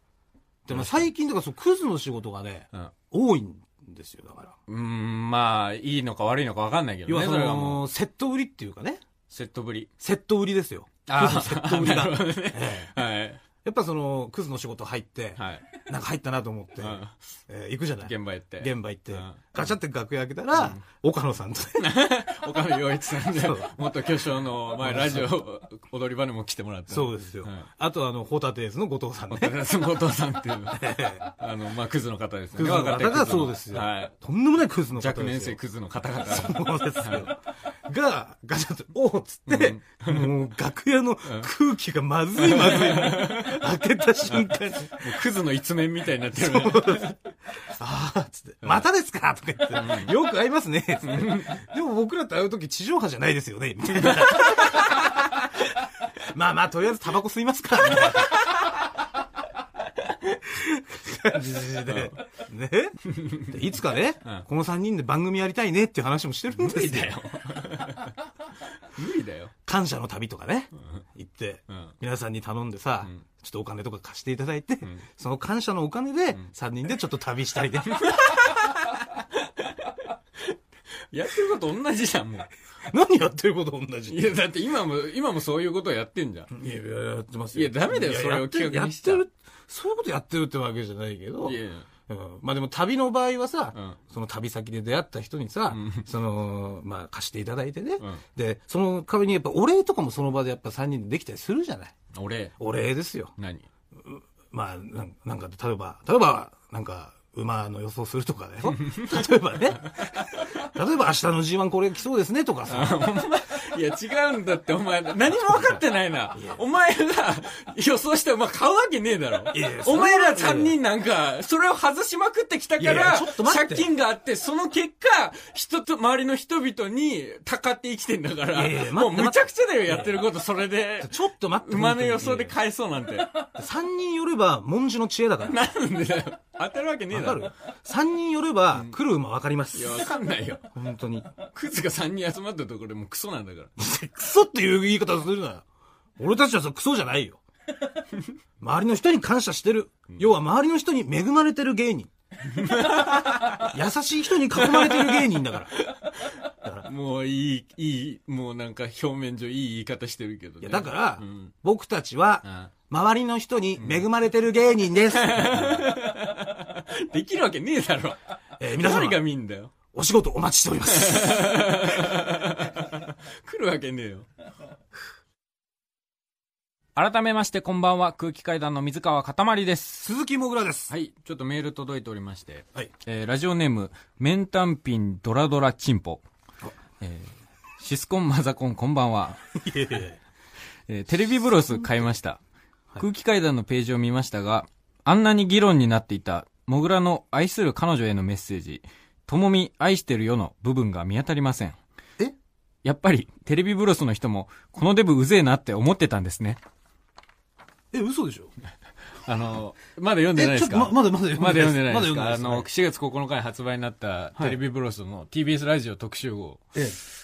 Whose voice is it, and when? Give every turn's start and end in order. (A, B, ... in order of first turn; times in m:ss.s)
0:00.7-0:04.6 A
0:00.7-0:01.1 B
0:04.7-0:07.9 B
0:07.1-0:09.0 A
0:09.3-0:09.9 B
0:10.0-0:12.9 A
0:11.1-0:13.4 B
0:13.6-0:21.9 A
0:15.4-0:15.7 B
0:16.8-0:17.2 B
0:18.0-0:19.4 B
0:20.5-0:20.8 B
0:21.8-0:27.7 B
0:23.3-0:23.7 A
0:24.8-0:25.3 A
0:26.9-0:29.6 A
0:29.3-0:34.1 B
0:30.7-0:31.3 A
0:32.6-0:35.6 A
0:35.0-0:37.3 B
0:36.2-0:45.3 A
0:39.5-0:40.3 B
0:42.4-0:43.6 B
0:44.3-0:47.2 B
0:46.3-0:55.2 A
0:49.7-0:50.1 B
0:51.0-0:51.6 B
0:54.0-0:54.9 B
0:56.3-0:58.5 A
1:00.3-1:07.2 A
1:01.9-1:02.2 B
1:03.1-1:03.5 B
1:06.6-1:08.1 B
1:08.9-1:09.5 B
1:09.7-1:18.3 A
1:18.0-1:19.7 B
1:21.1-1:22.5 B
1:22.9-1:24.4 A
1:24.1-1:26.5 B
1:26.5-1:41.9 A
1:27.5-1:29.2 B
1:31.4-1:31.9 B
1:35.7-1:36.1 B
1:42.1-1:42.6 B
1:42.6-1:43.3 A
1:43.4-1:43.7 B
1:44.0-1:53.0 A
1:48.7-1:49.3 B
1:52.7-2:13.5 B
1:55.5-1:55.8 A
1:56.3-1:56.6 A
1:59.5-2:00.8 A
2:02.8-2:03.9 A
2:08.5-2:10.2 A
2:11.0-2:12.6 A
2:13.6-2:15.6 A
2:15.4-2:17.5 B
2:17.1-2:20.1 A
2:19.7-2:20.6 B
2:20.7-2:21.3 A
2:21.4-2:23.7 B
2:23.8-2:25.6 A
2:26.2-2:27.4 A
2:28.6-2:32.1 A
2:32.5-2:33.7 B
2:33.6-2:35.7 A
2:34.6-2:41.5 B
2:40.6-2:45.9 A
2:42.4-2:42.7 B
2:43.8-2:44.0 B
2:45.1-2:48.2 B
2:48.6-2:49.2 A
2:48.8-2:49.7 B
2:49.9-2:51.8 A
2:50.9-2:54.3 B
2:57.0-3:00.1 B
3:00.0-3:00.9 A
3:00.9-3:06.2 B
3:07.0-3:09.4 B
3:09.6-3:10.2 A
3:10.9-3:12.4 B
3:13.0-3:21.8 B
3:22.8-3:26.6 B
3:27.9-3:28.5 A
3:29.2-3:36.8 B
3:30.4-3:32.7 A
3:34.4-3:34.6 A